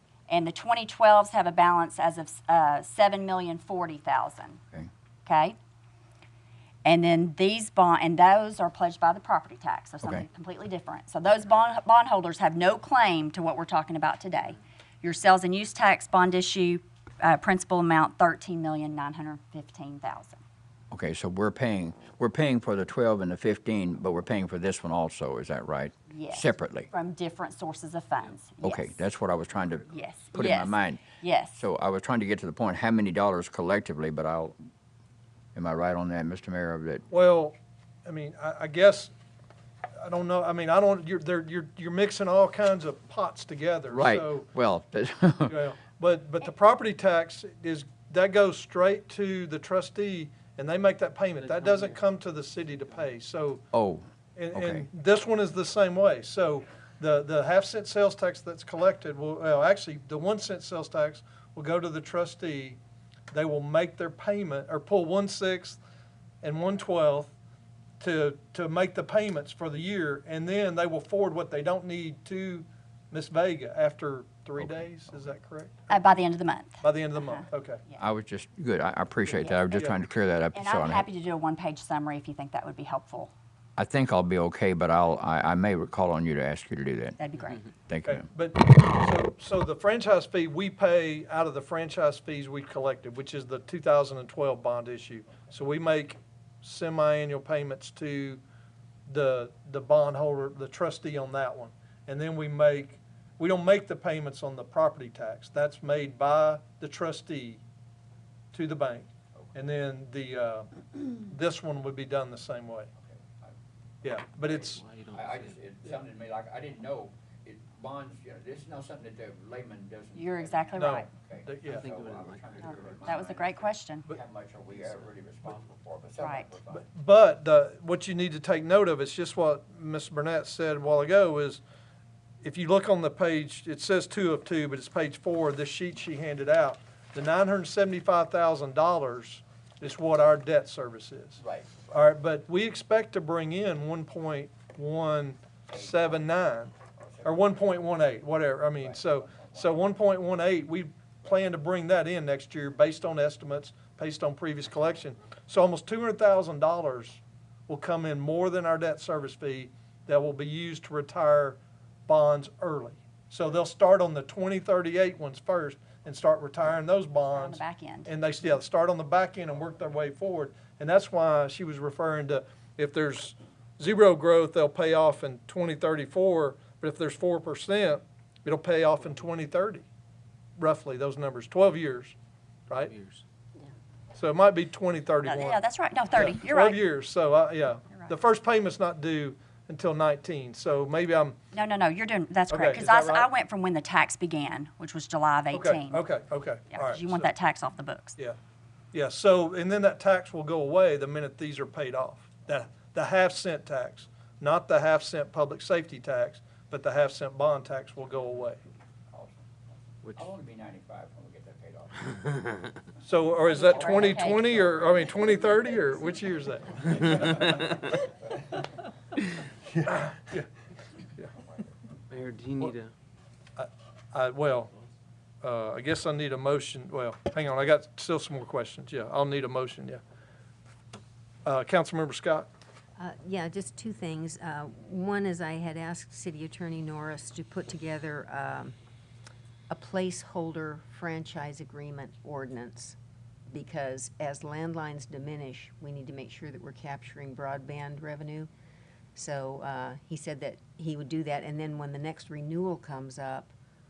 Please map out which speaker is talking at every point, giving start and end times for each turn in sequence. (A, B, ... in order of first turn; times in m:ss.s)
0:00.3-0:04.6 A
0:05.3-0:05.6 A
0:06.8-0:20.4 A
0:20.9-0:26.9 B
0:26.1-0:29.0 A
0:28.6-0:31.0 B
0:29.9-0:31.6 A
0:31.6-0:34.6 B
0:35.6-0:37.0 B
0:37.1-0:39.1 C
0:40.0-0:44.5 C
0:43.9-0:45.6 B
0:45.5-0:53.6 C
0:51.4-0:52.0 D
0:53.7-0:54.9 B
0:54.4-1:02.8 C
1:03.3-1:05.8 C
1:06.4-1:07.3 C
1:08.0-1:16.0 C
1:14.6-1:14.9 B
1:15.9-1:18.0 A
1:16.8-1:17.8 C
1:18.0-1:21.1 B
1:19.3-1:19.6 A
1:20.5-1:23.3 A
1:23.8-1:27.2 B
1:27.2-1:27.6 A
1:27.9-1:28.3 B
1:28.1-1:38.4 C
1:39.1-1:47.6 C
1:48.5-1:52.9 C
1:53.0-1:53.6 B
1:54.0-1:54.8 C
1:54.4-2:06.8 B
1:54.8-1:55.6 D
2:00.2-2:01.1 A
2:00.8-2:01.9 C
2:01.7-2:03.0 D
2:02.7-2:04.1 A
2:06.2-2:06.5 A
2:06.7-2:11.6 C
2:12.4-2:59.8 C
2:21.4-2:21.7 B
2:25.7-2:26.2 B
2:27.0-2:27.5 B
2:28.8-2:29.8 B
2:47.3-2:48.1 A
3:00.6-3:02.2 C
3:02.7-3:02.9 C
3:02.8-3:03.2 D
3:04.1-3:05.6 C
3:05.2-3:06.8 A
3:06.1-3:11.4 C
3:11.5-3:16.0 A
3:12.5-3:13.3 C
3:15.5-3:17.3 C
3:16.7-3:18.2 A
3:18.9-3:28.6 C
3:29.1-3:29.5 B
3:30.1-3:32.1 B
3:33.0-3:37.7 C
3:33.5-3:34.4 A
3:33.6-3:36.0 B
3:39.8-3:40.5 C
3:42.1-3:42.9 D
3:43.6-3:44.7 C
3:45.4-3:50.0 C
3:51.4-3:52.5 C
3:53.0-3:58.8 E
3:59.7-4:03.0 E
4:03.5-4:08.5 E
4:09.2-4:13.5 E